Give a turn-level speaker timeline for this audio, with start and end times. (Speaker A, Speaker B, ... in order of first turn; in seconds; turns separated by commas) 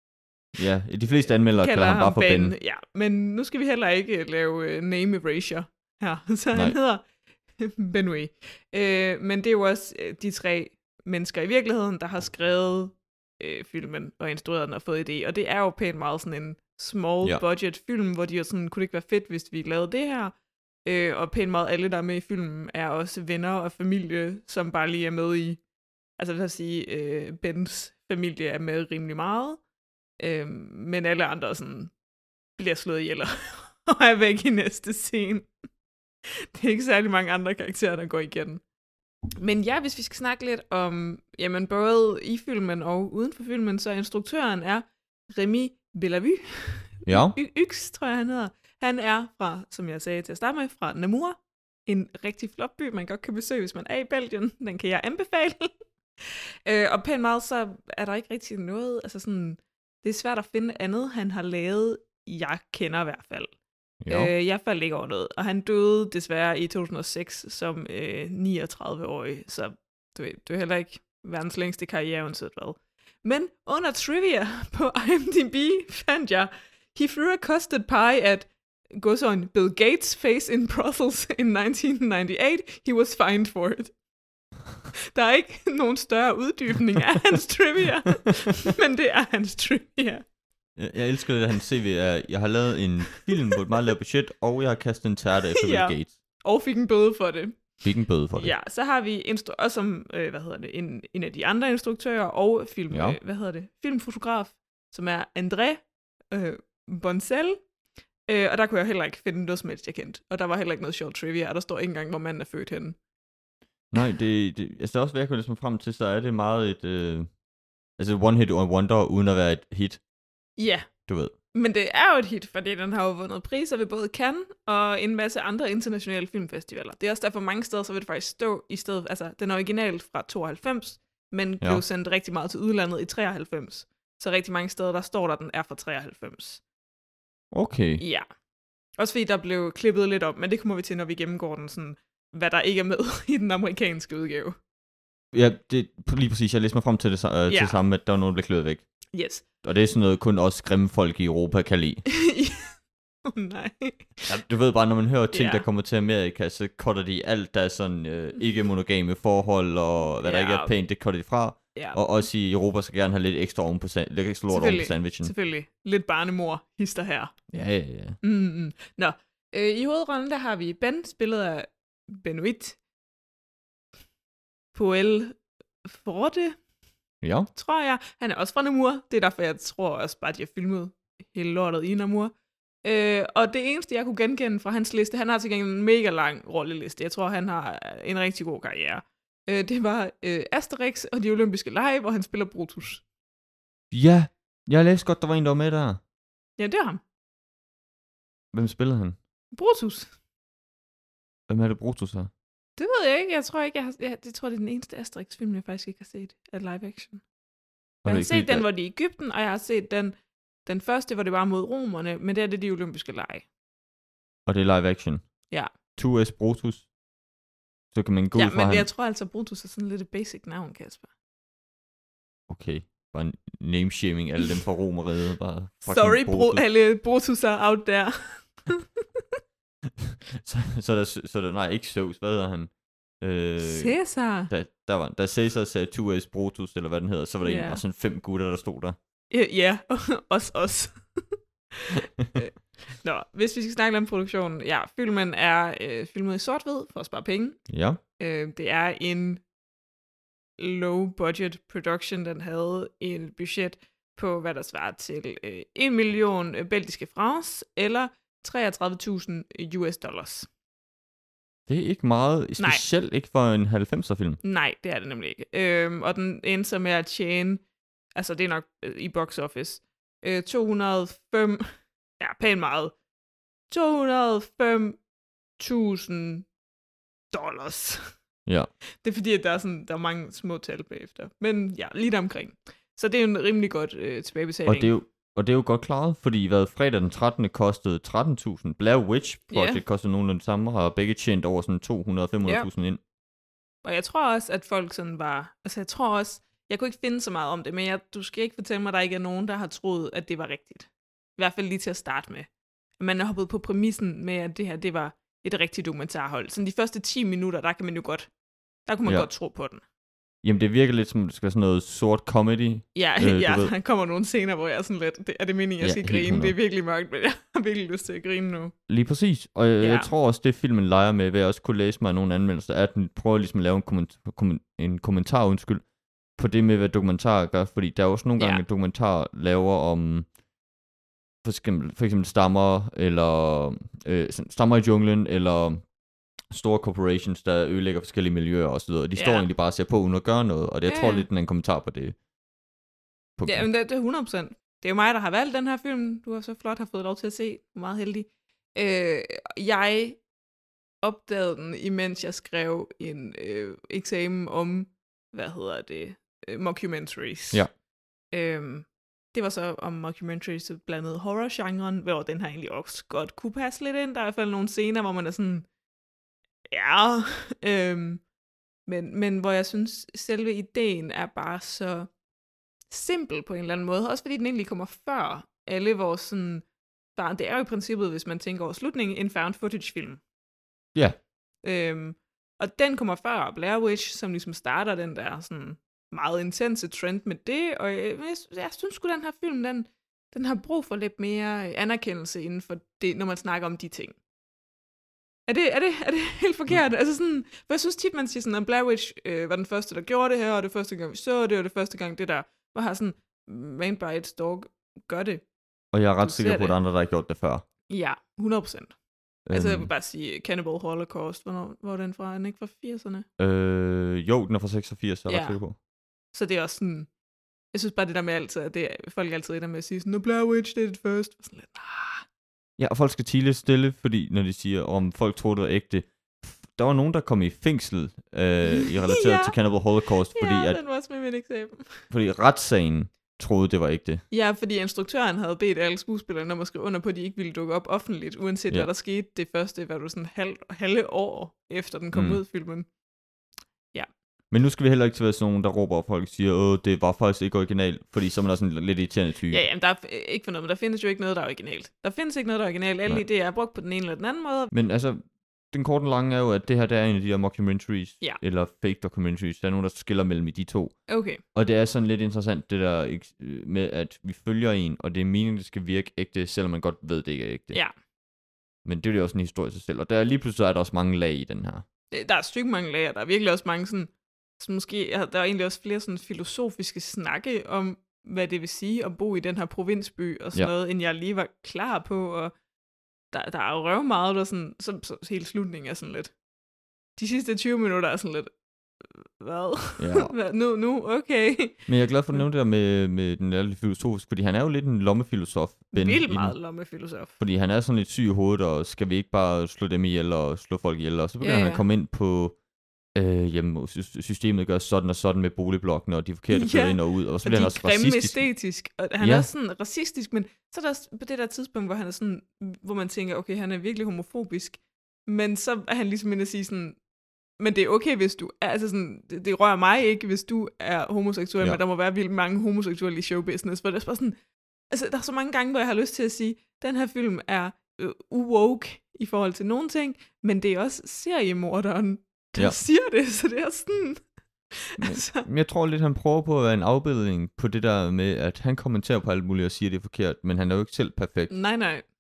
Speaker A: 0.6-2.5, Speaker B: 1.6-7.0, Speaker B: 7.6-20.3, Speaker B: 20.9-25.6, Speaker B: 26.2-29.6, Speaker B: 30.2-31.9, Speaker B: 32.6-35.5, Speaker B: 36.5-38.6, Speaker B: 39.4-63.5, Speaker A: 47.1-47.4, Speaker A: 64.0-64.3, Speaker B: 64.1-83.9, Speaker B: 85.1-90.2, Speaker A: 90.8-96.1, Speaker B: 95.6-97.7, Speaker A: 97.8-98.5, Speaker B: 98.3-107.6, Speaker A: 102.9-103.2, Speaker B: 108.3-113.0, Speaker A: 113.9-117.3, Speaker A: 118.0-120.0, Speaker B: 120.6-120.9, Speaker A: 121.1-121.3, Speaker B: 121.5-136.6, Speaker A: 137.5-138.0, Speaker B: 138.0-138.3, Speaker B: 139.0-144.6, Speaker A: 145.3-148.8, Speaker B: 147.5-147.8, Speaker B: 149.1-149.4, Speaker A: 149.6-152.0, Speaker B: 152.1-154.3, Speaker A: 154.3-165.3, Speaker B: 155.3-155.7, Speaker B: 160.2-160.7, Speaker B: 164.5-167.4, Speaker A: 167.5-168.2, Speaker B: 168.2-172.8, Speaker B: 174.7-176.6, Speaker A: 177.2-177.5, Speaker B: 177.5-182.3, Speaker B: 182.8-193.0, Speaker A: 193.9-196.0, Speaker B: 196.6-197.0, Speaker A: 198.5-199.2, Speaker B: 199.5-200.1, Speaker A: 201.5-202.3, Speaker B: 202.8-207.2, Speaker A: 208.1-208.7, Speaker B: 208.1-213.4, Speaker A: 214.5-215.2, Speaker A: 216.0-216.9, Speaker A: 217.9-218.9, Speaker B: 218.3-221.1, Speaker A: 222.5-226.6, Speaker B: 225.8-229.2, Speaker A: 230.0-234.0, Speaker B: 233.6-234.5, Speaker A: 234.5-239.0, Speaker B: 237.4-237.8, Speaker B: 239.3-247.6, Speaker A: 247.7-248.0, Speaker B: 248.2-249.4, Speaker B: 250.6-260.5, Speaker A: 261.7-264.4, Speaker B: 264.4-267.6, Speaker B: 268.2-272.9, Speaker B: 273.7-275.0, Speaker B: 275.6-276.5, Speaker B: 277.3-278.1, Speaker B: 279.0-284.9, Speaker A: 284.7-293.0, Speaker B: 289.5-289.8, Speaker B: 292.4-292.7, Speaker B: 293.8-308.3, Speaker B: 308.9-309.8, Speaker A: 310.4-313.7, Speaker B: 312.9-318.8, Speaker A: 315.8-316.6, Speaker A: 318.9-325.8, Speaker B: 319.8-320.1, Speaker A: 326.4-330.3, Speaker B: 328.4-328.6, Speaker A: 331.4-335.9, Speaker A: 336.5-342.2, Speaker B: 339.2-339.5, Speaker B: 340.9-341.3, Speaker A: 343.4-343.7, Speaker B: 343.5-350.2, Speaker B: 351.0-357.6, Speaker B: 358.3-365.7, Speaker B: 366.7-368.2, Speaker B: 368.9-372.1, Speaker B: 372.9-376.6, Speaker B: 377.2-380.2, Speaker B: 381.6-394.2, Speaker B: 395.5-405.4, Speaker A: 405.9-407.6, Speaker B: 406.2-406.8, Speaker B: 407.9-408.9, Speaker A: 409.5-409.9, Speaker B: 409.5-413.3, Speaker A: 413.4-415.8, Speaker B: 415.3-415.6, Speaker B: 416.3-417.1, Speaker B: 417.7-422.2, Speaker A: 422.8-430.8, Speaker B: 428.7-429.6, Speaker B: 430.3-432.0, Speaker A: 432.1-434.2, Speaker B: 434.3-442.9, Speaker A: 442.1-442.4, Speaker A: 444.5-449.6, Speaker B: 449.5-454.7, Speaker A: 454.7-461.0, Speaker B: 461.1-461.4, Speaker A: 461.5-467.8, Speaker A: 468.9-471.8, Speaker B: 472.1-482.5, Speaker B: 483.3-486.3, Speaker B: 487.2-488.5, Speaker B: 489.1-492.4, Speaker A: 490.0-490.3, Speaker A: 491.9-496.6, Speaker B: 495.9-497.3, Speaker A: 497.4-502.6, Speaker B: 501.4-501.8, Speaker A: 503.1-508.4, Speaker B: 506.5-517.0, Speaker A: 509.2-509.5, Speaker B: 517.6-524.4, Speaker B: 524.9-534.2, Speaker B: 534.8-535.5, Speaker A: 535.0-541.5, Speaker B: 541.5-542.0